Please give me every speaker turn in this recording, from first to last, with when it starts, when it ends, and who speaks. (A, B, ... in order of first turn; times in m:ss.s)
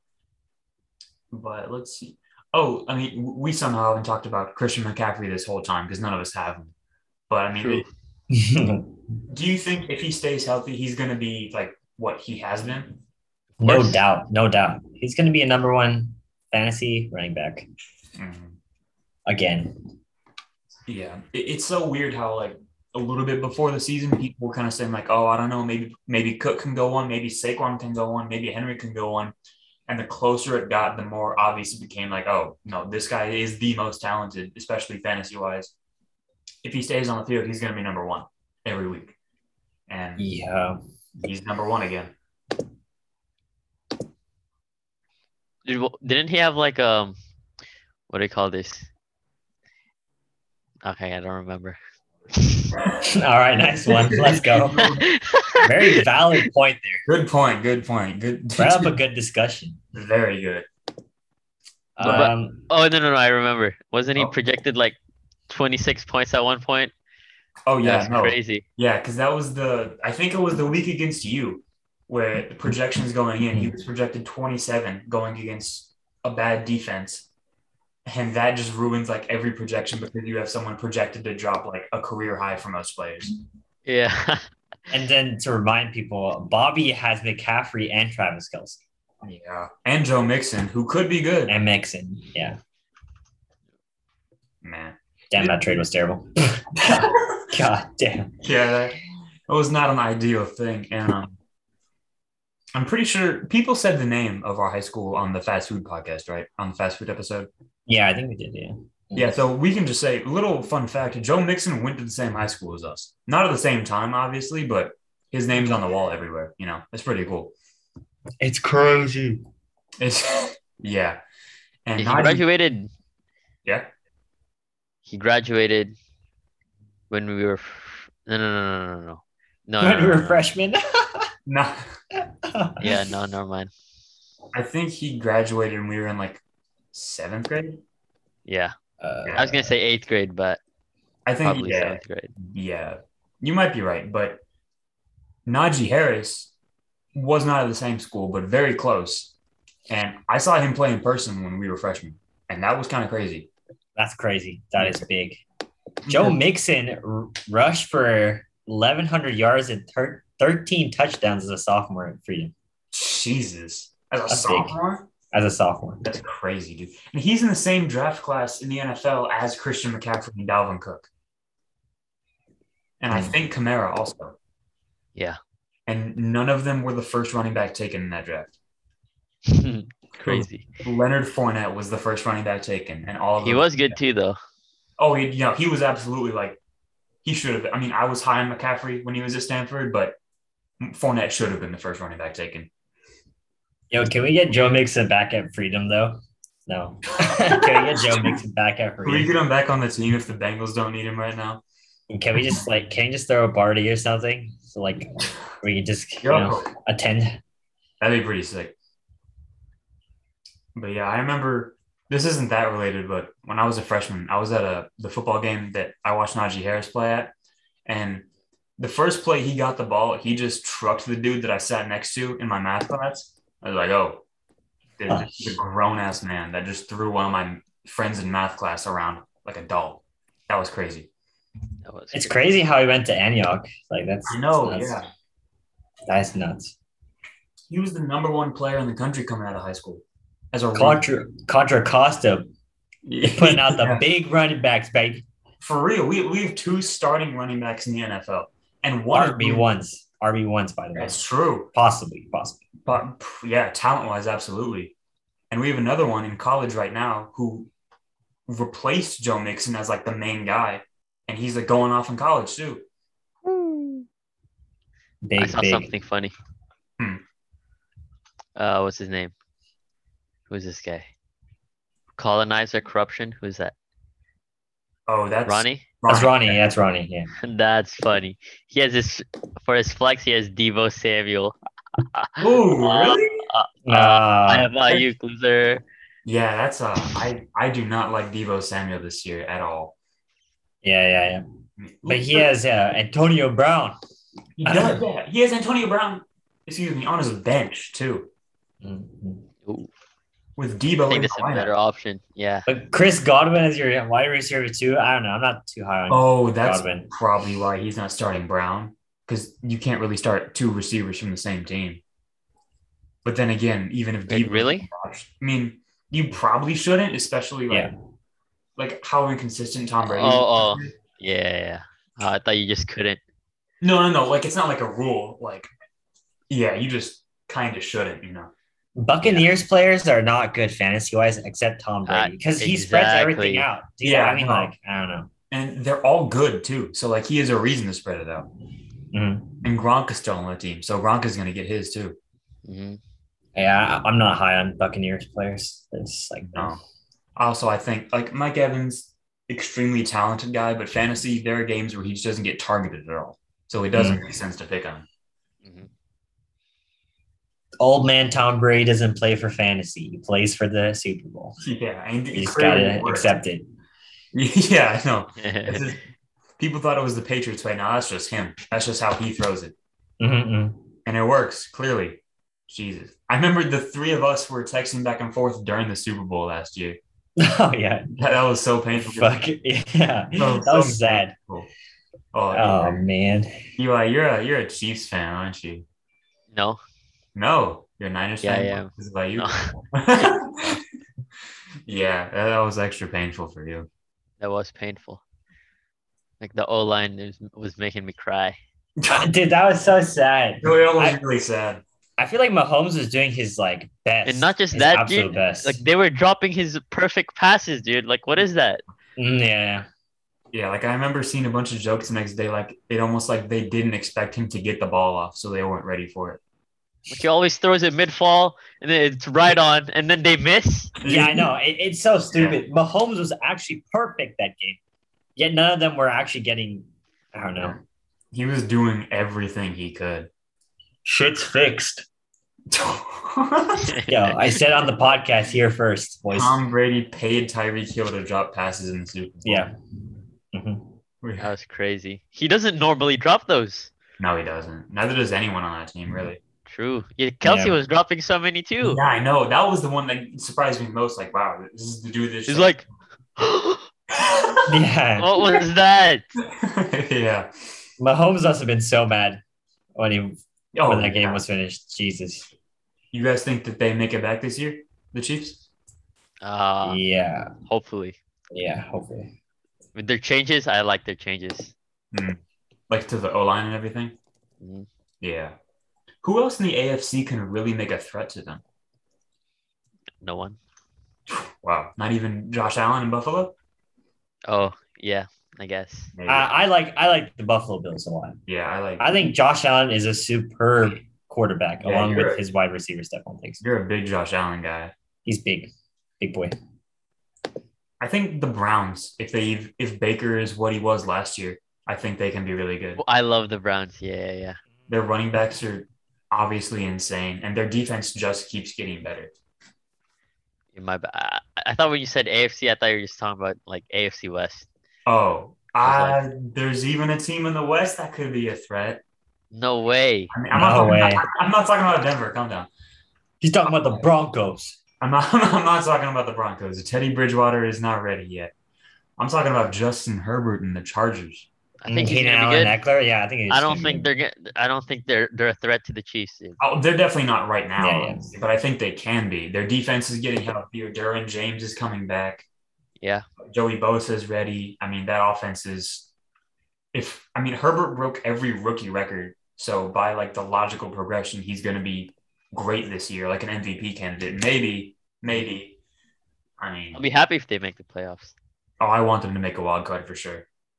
0:01.3-0:06.7 A
0:07.3-0:07.8 A
0:07.6-0:07.9 B
0:08.3-0:08.9 C
0:09.3-0:13.0 A
0:13.6-0:17.7 C
0:13.6-0:14.0 B
0:18.2-0:18.6 A
0:19.3-0:19.8 C
0:20.9-0:29.3 A
0:29.9-0:35.7 A
0:36.6-0:39.1 A
0:39.9-0:40.2 A
0:40.2-0:40.8 C
0:41.2-0:42.1 A
0:45.6-0:47.2 B
0:48.1-0:48.9 B
0:50.8-0:51.8 B
0:52.3-0:52.8 B
0:53.0-0:54.9 C
0:53.8-0:55.1 A
0:54.8-0:56.0 B
0:55.6-0:57.0 C
0:57.1-0:58.9 A
0:58.6-0:59.8 C
0:59.9-1:00.7 A
1:02.0-1:02.6 C
1:02.0-1:05.0 B
1:05.5-1:06.9 B
1:07.7-1:17.3 A
1:07.8-1:08.6 B
1:18.1-1:23.3 A
1:23.8-1:24.4 B
1:24.9-1:28.8 C
1:29.2-1:31.6 A
1:31.5-1:32.6 C
1:34.6-1:35.6 A
1:35.3-1:38.4 C
1:36.8-1:37.5 A
1:38.4-1:41.4 A
1:42.7-1:47.5 A
1:47.9-1:49.4 C
1:49.1-1:57.6 A
1:58.4-1:59.4 C
2:00.0-2:01.2 A
2:01.9-2:02.4 A
2:02.0-2:02.9 B
2:05.1-2:06.0 B
2:07.1-2:10.4 B
2:09.8-2:11.3 C
2:11.5-2:11.8 A
2:12.1-2:13.1 C
2:12.8-2:13.7 B
2:14.5-2:16.4 A
2:16.9-2:17.8 A
2:18.4-2:18.7 B
2:19.0-2:19.7 C
2:19.4-2:20.6 B
2:21.3-2:24.4 A
2:21.4-2:22.3 B
2:25.4-2:26.5 A
2:27.1-2:29.3 A
2:29.9-2:33.5 A
2:34.0-2:35.4 C
2:34.8-2:35.0 A
2:36.0-2:36.4 A
2:36.1-2:42.5 C
2:42.9-2:45.1 A
2:44.3-2:44.8 C
2:45.3-2:46.0 C
2:46.0-2:51.1 A
2:53.0-2:54.4 A
2:55.9-2:58.6 A
2:59.5-3:00.7 B
3:00.2-3:04.0 A
3:03.4-3:04.4 B
3:05.0-3:06.6 A
3:07.2-3:10.2 A
3:10.8-3:12.7 A
3:13.9-3:19.3 C
3:17.2-3:18.4 A
3:19.0-3:21.6 A
3:22.1-3:27.4 C
3:26.2-3:26.7 A
3:28.0-3:28.7 A
3:30.7-3:37.3 A
3:37.9-3:38.3 A
3:38.8-3:44.2 A
3:45.0-3:51.1 A
3:45.1-3:45.6 C
3:51.8-3:52.5 B
3:52.1-3:55.0 C
3:54.3-3:55.1 A
3:56.1-3:56.7 C
3:57.7-4:01.0 A
4:00.7-4:02.5 C
4:03.0-4:04.0 A
4:03.2-4:05.2 C
4:05.6-4:09.7 A
4:09.1-4:11.2 C
4:11.0-4:11.7 A
4:11.7-4:12.6 C
4:12.8-4:14.9 A
4:15.5-4:17.7 A
4:18.5-4:22.8 A
4:25.2-4:25.9 C
4:25.4-4:26.3 B
4:28.6-4:29.3 B
4:30.5-4:31.1 B
4:32.2-4:33.7 B
4:35.1-4:36.6 A
4:35.5-4:35.9 B
4:36.1-4:37.3 C
4:37.4-4:45.8 B
4:42.4-4:43.4 A
4:43.9-4:44.7 C
4:46.2-4:50.0 A
4:50.8-4:51.4 C
4:51.8-4:52.5 A
4:52.1-4:54.0 C
4:54.6-4:58.3 A
4:54.6-4:55.0 C
4:58.8-4:59.5 C
4:59.6-4:59.9 B
5:00.6-5:01.7 A
5:01.1-5:02.7 B
5:02.7-5:07.1 C
5:06.1-5:12.0 A
5:13.2-5:17.9 A
5:14.3-5:14.9 B
5:18.8-5:20.9 A
5:20.0-5:23.2 B
5:23.8-5:25.7 A
5:26.5-5:28.5 A
5:29.0-5:35.3 C
5:32.1-5:33.7 B
5:34.0-5:34.7 A
5:35.5-5:38.5 A
5:39.1-5:39.6 C
5:39.6-5:42.2 A
5:42.6-5:43.0 B
5:43.6-5:46.8 C
5:46.5-5:46.8 A
5:47.4-5:55.1 A
5:53.9-5:54.2 C
5:55.6-5:55.9 B
5:57.8-6:01.6 C
6:01.6-6:03.4 A
6:02.3-6:03.6 C
6:04.3-6:06.0 A
6:05.4-6:05.9 B
6:06.6-6:09.7 A
6:10.2-6:10.8 C
6:11.0-6:17.0 A
6:17.4-6:18.1 C
6:18.2-6:19.4 A
6:19.1-6:21.4 C
6:20.4-6:21.7 A
6:22.3-6:23.0 A
6:22.5-6:23.5 C
6:23.8-6:25.9 A
6:26.5-6:26.8 B
6:27.4-6:30.8 A
6:28.4-6:30.3 B
6:31.9-6:33.9 A
6:34.4-6:35.2 B
6:36.4-6:38.6 B
6:39.0-6:39.3 A
6:39.1-6:41.2 C
6:40.6-6:41.8 A
6:42.2-6:45.8 C
6:44.3-6:48.8 B
6:49.2-6:49.9 C
6:50.5-6:56.4 A
6:57.1-7:00.9 B
7:01.0-7:01.5 A
7:01.0-7:04.8 C
7:02.3-7:02.6 A
7:05.4-7:07.8 C
7:08.3-7:10.3 A
7:11.0-7:12.1 C
7:12.7-7:13.9 A
7:13.9-7:14.6 B
7:14.1-7:16.6 C
7:16.3-7:19.7 A
7:19.4-7:19.7 C
7:20.5-7:20.9 C
7:21.2-7:21.5 A
7:21.4-7:23.9 B
7:24.2-7:26.4 A
7:26.7-7:29.0 B
7:27.4-7:27.8 C
7:28.8-7:32.8 A
7:32.5-7:32.9 B
7:33.4-7:33.9 B
7:34.1-7:34.7 A
7:34.7-7:35.3 C
7:35.2-7:36.3 B
7:36.4-7:37.5 A
7:38.0-7:39.4 C
7:40.0-7:42.5 C
7:40.7-7:41.4 A
7:43.1-7:45.7 A
7:46.4-7:47.0 B
7:46.8-7:47.5 C
7:47.7-7:48.2 B
7:48.5-7:49.3 C
7:50.0-7:51.7 B
7:52.1-7:54.2 A
7:54.6-7:54.9 B
7:55.2-7:55.6 A
7:56.2-7:58.6 A
8:00.2-8:00.6 B
8:01.3-8:03.6 A
8:04.5-8:06.1 B
8:06.1-8:06.5 A
8:06.3-8:08.4 C
8:08.4-8:09.1 A
8:09.0-8:13.6 C
8:11.8-8:12.4 A
8:13.6-8:14.9 A
8:15.3-8:16.6 C
8:18.0-8:23.0 A
8:23.0-8:24.6 B
8:24.9-8:29.3 A
8:30.7-8:34.7 B
8:35.1-8:39.0 A
8:35.8-8:36.2 B
8:39.5-8:40.3 B
8:40.3-8:42.7 A
8:40.5-8:41.2 C
8:43.4-8:44.8 C
8:45.0-8:48.5 A
8:49.2-8:51.5 A
8:51.8-8:52.8 B
8:51.9-8:54.1 C
8:53.5-8:56.6 B
8:56.6-9:02.4 A
8:57.8-8:58.3 C
9:03.0-9:03.2 B
9:03.4-9:06.1 A
9:06.9-9:15.7 A
9:16.6-9:17.0 A
9:16.9-9:18.4 B
9:18.8-9:20.4 A